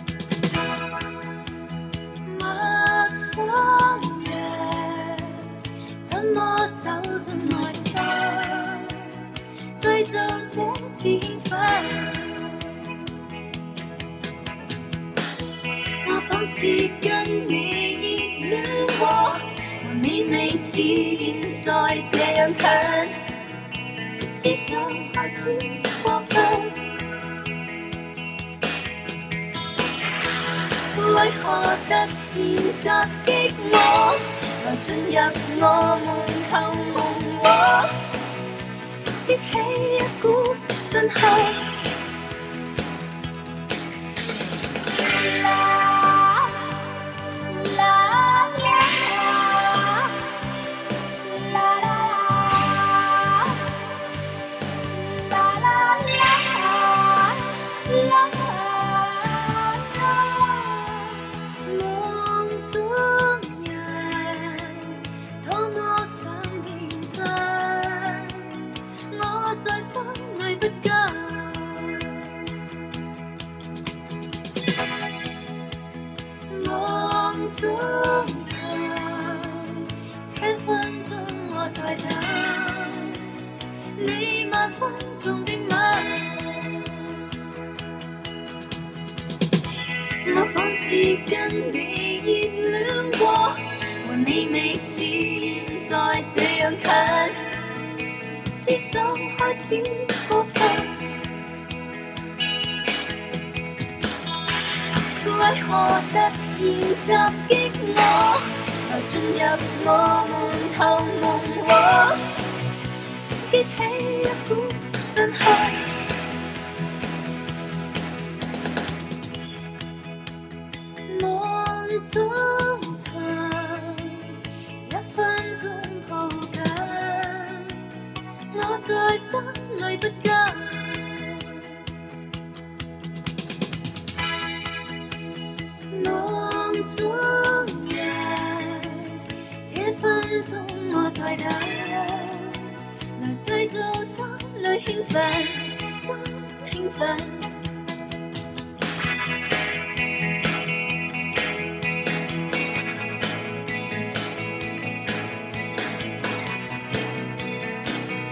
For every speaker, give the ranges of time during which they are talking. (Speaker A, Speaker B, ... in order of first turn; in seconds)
Speaker A: 2.2-12.9, 16.0-23.2, 24.2-27.0, 30.9-38.1, 39.2-41.9, 45.0-50.5, 51.2-53.8, 54.9-72.5, 76.5-83.3, 84.0-87.2, 90.2-97.5, 98.5-101.2, 105.2-112.3, 113.4-116.0, 121.1-127.9, 128.5-131.8, 135.9-147.6